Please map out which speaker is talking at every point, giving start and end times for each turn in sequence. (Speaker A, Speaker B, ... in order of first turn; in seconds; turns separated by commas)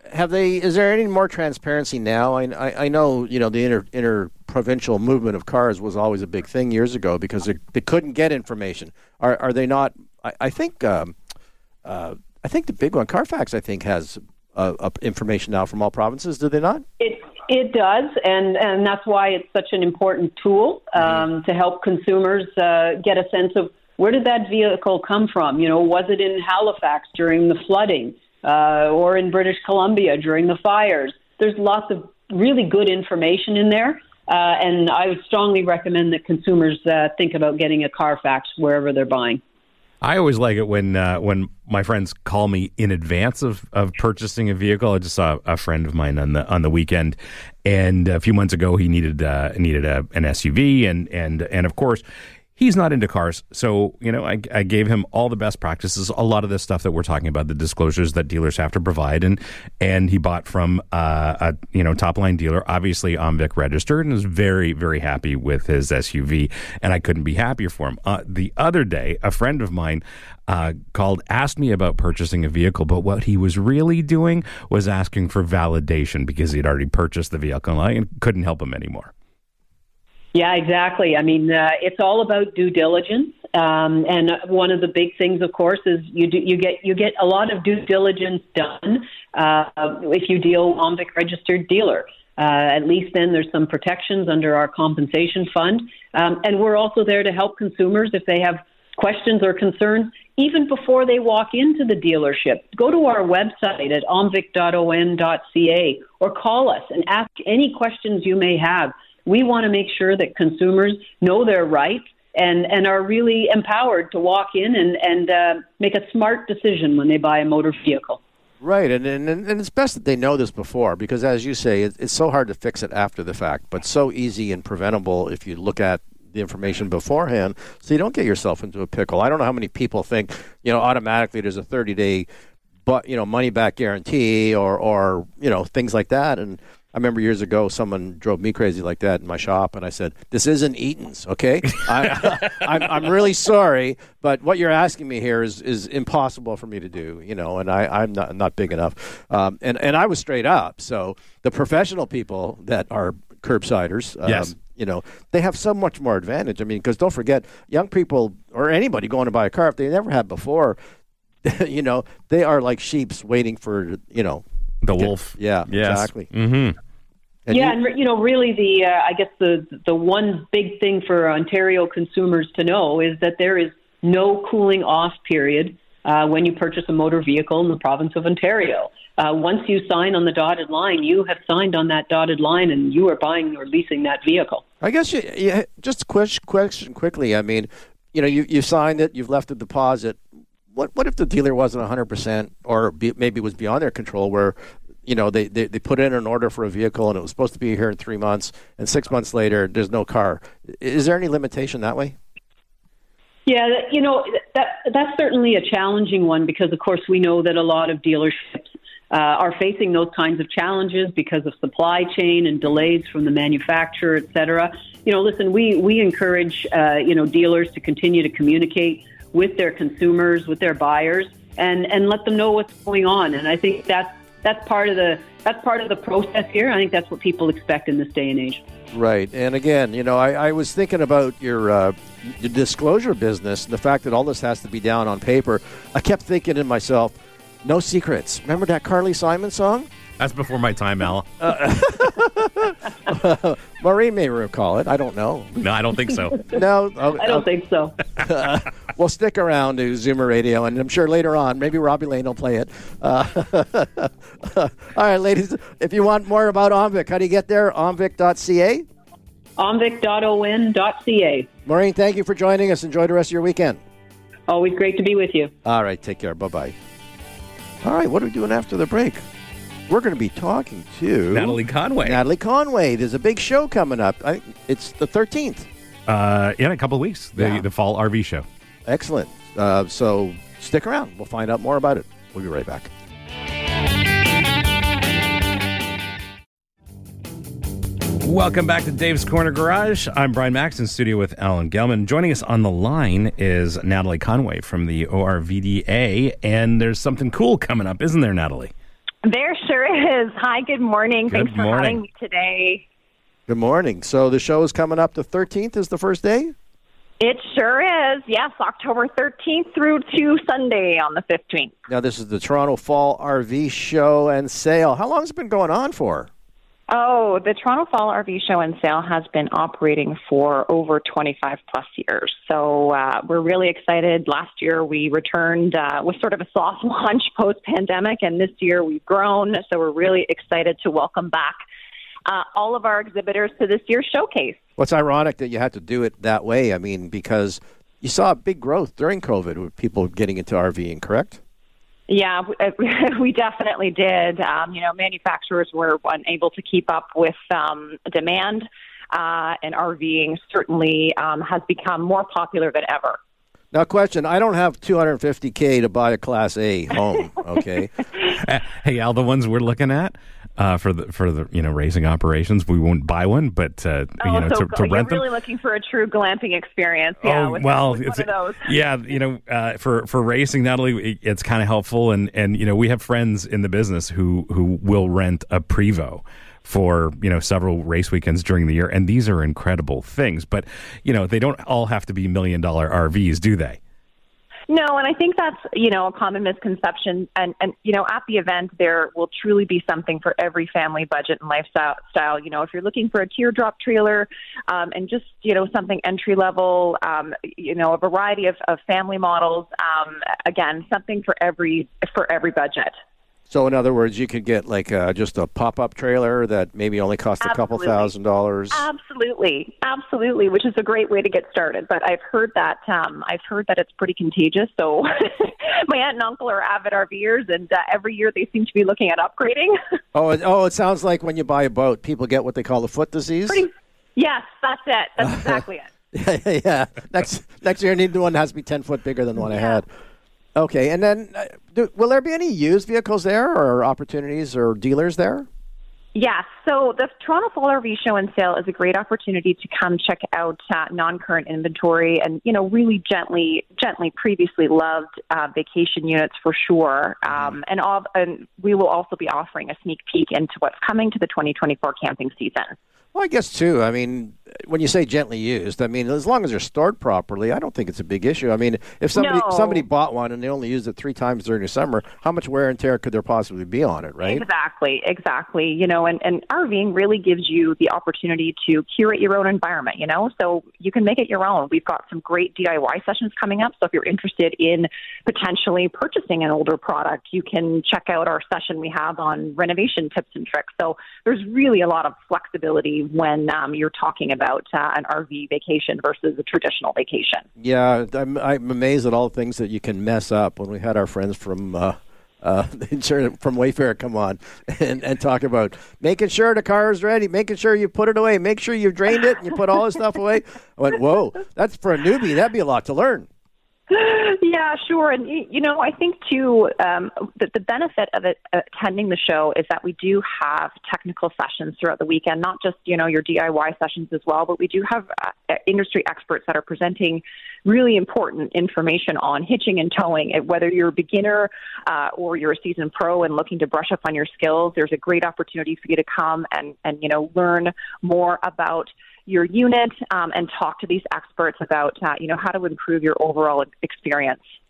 Speaker A: 0.1-11.2, Speaker A: 11.8-16.9, Speaker B: 17.0-39.4, Speaker C: 40.0-52.0, Speaker C: 52.6-79.1, Speaker B: 80.3-118.2, Speaker A: 118.6-132.3, Speaker A: 132.9-160.8, Speaker C: 154.3-154.5, Speaker A: 161.4-164.4, Speaker C: 164.8-166.8, Speaker A: 165.0-166.3, Speaker A: 167.5-167.8, Speaker B: 167.5-184.6, Speaker A: 184.8-190.2, Speaker A: 190.7-202.2, Speaker B: 203.5-228.6, Speaker A: 228.9-239.9, Speaker C: 240.2-241.4, Speaker A: 241.4-245.7, Speaker C: 245.6-246.5, Speaker A: 246.4-247.5, Speaker B: 247.1-248.0, Speaker A: 248.2-258.9, Speaker B: 259.6-261.5, Speaker A: 261.7-263.8, Speaker B: 264.5-265.5, Speaker A: 265.6-266.8, Speaker A: 267.8-269.2, Speaker A: 269.9-275.7, Speaker C: 271.3-272.2, Speaker C: 276.1-278.4, Speaker A: 277.4-277.7, Speaker A: 278.9-282.9, Speaker C: 288.2-298.7, Speaker D: 299.2-302.9, Speaker C: 301.3-302.0, Speaker A: 303.5-306.6, Speaker D: 307.2-311.7, Speaker A: 311.9-316.3, Speaker D: 316.9-331.6, Speaker D: 332.3-334.6, Speaker A: 334.8-341.4, Speaker D: 342.1-353.2, Speaker A: 353.7-357.9, Speaker C: 358.3-365.2, Speaker D: 364.2-368.7, Speaker C: 367.2-383.8, Speaker D: 384.7-403.0, Speaker A: 403.5-408.9, Speaker D: 407.4-408.1, Speaker D: 408.7-419.8, Speaker A: 420.1-423.7, Speaker D: 423.5-425.9, Speaker A: 425.2-425.6, Speaker A: 426.1-429.9, Speaker A: 430.6-435.5, Speaker D: 436.1-452.8, Speaker A: 453.1-464.5, Speaker D: 459.2-459.8, Speaker D: 464.2-487.4, Speaker A: 487.6-503.3, Speaker D: 503.9-534.4